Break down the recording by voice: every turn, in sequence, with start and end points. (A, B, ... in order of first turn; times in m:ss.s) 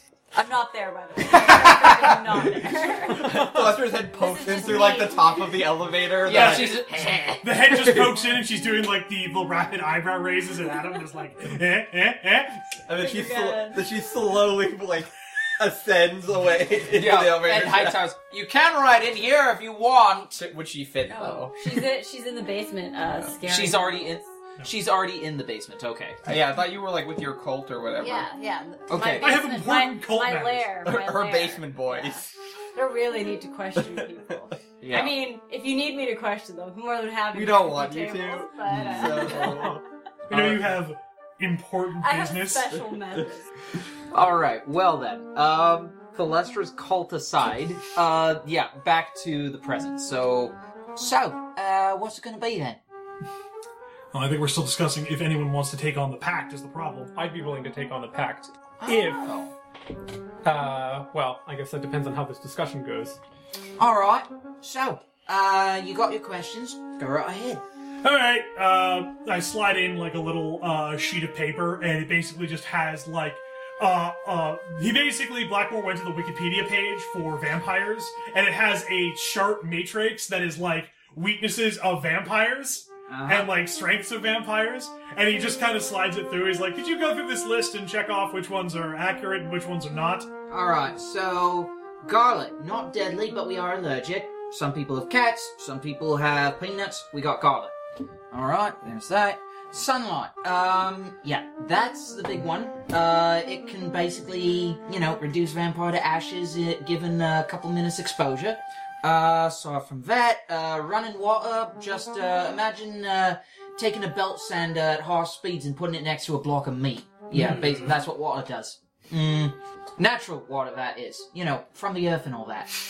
0:00.3-0:05.7 A
0:01.4-0:02.4 B
0:03.0-0:06.8 B
0:06.2-0:07.9 C
0:06.3-0:06.7 D
0:07.4-0:12.7 D
0:12.9-0:18.0 B
0:13.0-0:13.8 A
0:16.9-0:20.4 C
0:20.3-0:21.8 B
0:21.1-0:24.3 A
0:23.5-0:26.2 C
0:26.2-0:28.3 B
0:28.0-0:39.8 A
0:28.9-0:29.3 C
0:29.2-0:30.7 D
0:30.8-0:32.3 B
0:34.8-0:35.1 C
0:37.3-0:39.8 B
0:38.7-0:39.0 C
0:40.3-0:42.8 D
0:40.3-0:40.6 C
0:42.0-0:43.5 A
0:44.1-0:52.8 C
0:54.1-0:57.1 D
0:57.2-0:59.3 E
0:58.8-0:59.5 C
1:00.4-1:03.2 E
1:03.8-1:07.6 C
1:08.0-1:30.3 D
1:23.1-1:23.5 C
1:30.5-1:37.7 C
1:38.3-2:02.7 C
1:57.4-1:57.9 D